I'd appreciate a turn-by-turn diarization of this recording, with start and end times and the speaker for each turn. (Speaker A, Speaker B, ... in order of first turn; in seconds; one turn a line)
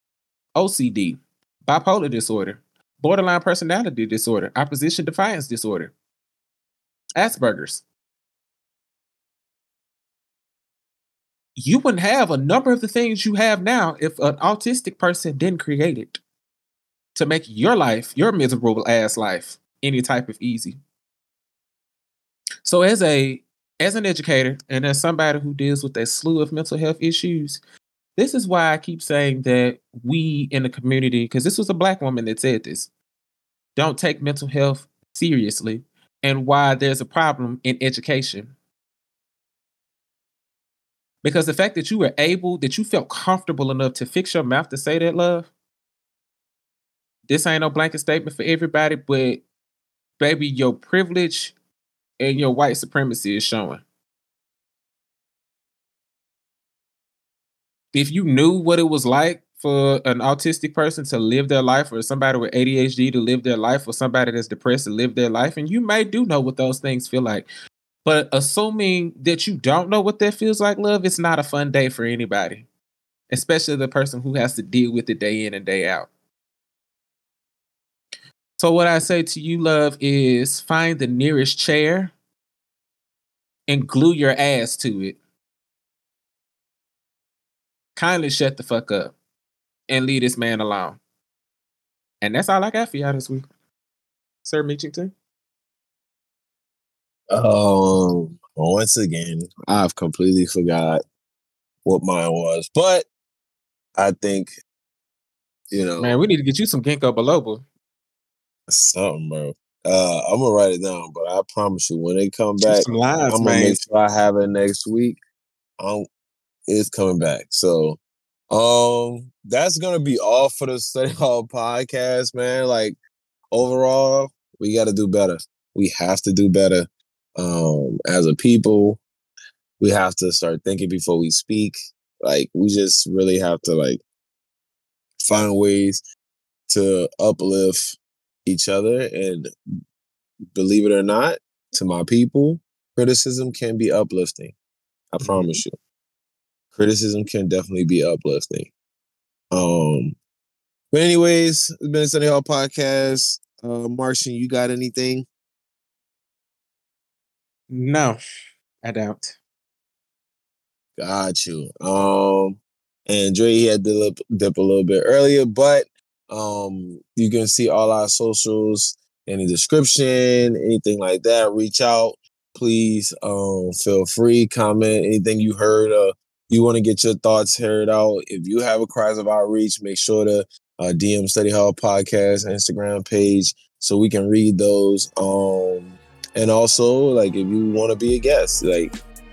Speaker A: 0.5-5.9
Speaker A: 7.2-7.8
Speaker A: 11.6-16.2
Speaker A: 17.1-20.8
Speaker A: 22.6-27.6
Speaker A: 28.2-32.9
Speaker A: 33.8-38.5
Speaker A: 41.2-45.5
Speaker A: 47.3-49.4
Speaker A: 50.2-51.5
Speaker A: 52.2-53.8
Speaker A: 57.9-67.5
Speaker A: 68.0-72.7
Speaker A: 73.3-76.1
Speaker A: 78.6-82.1
Speaker A: 83.7-85.2
Speaker A: 88.0-89.1
Speaker A: 89.9-91.0
Speaker A: 92.2-93.5
Speaker A: 94.4-95.1
Speaker B: 97.3-101.0
Speaker B: 101.8-103.1
Speaker B: 104.0-104.6
Speaker B: 105.7-106.2
Speaker A: 106.0-107.6
Speaker B: 108.7-115.2
Speaker A: 112.7-113.8
Speaker B: 115.8-116.1
Speaker B: 116.7-118.0
Speaker B: 118.5-123.0
Speaker B: 123.5-129.0
Speaker B: 129.8-134.0
Speaker B: 135.2-136.0
Speaker B: 136.7-139.5
Speaker B: 140.5-144.5
Speaker B: 145.1-145.7
Speaker B: 146.8-148.7
Speaker B: 149.5-150.2
Speaker B: 150.9-155.2
Speaker A: 157.7-158.2
Speaker A: 158.8-159.3
Speaker B: 161.0-188.9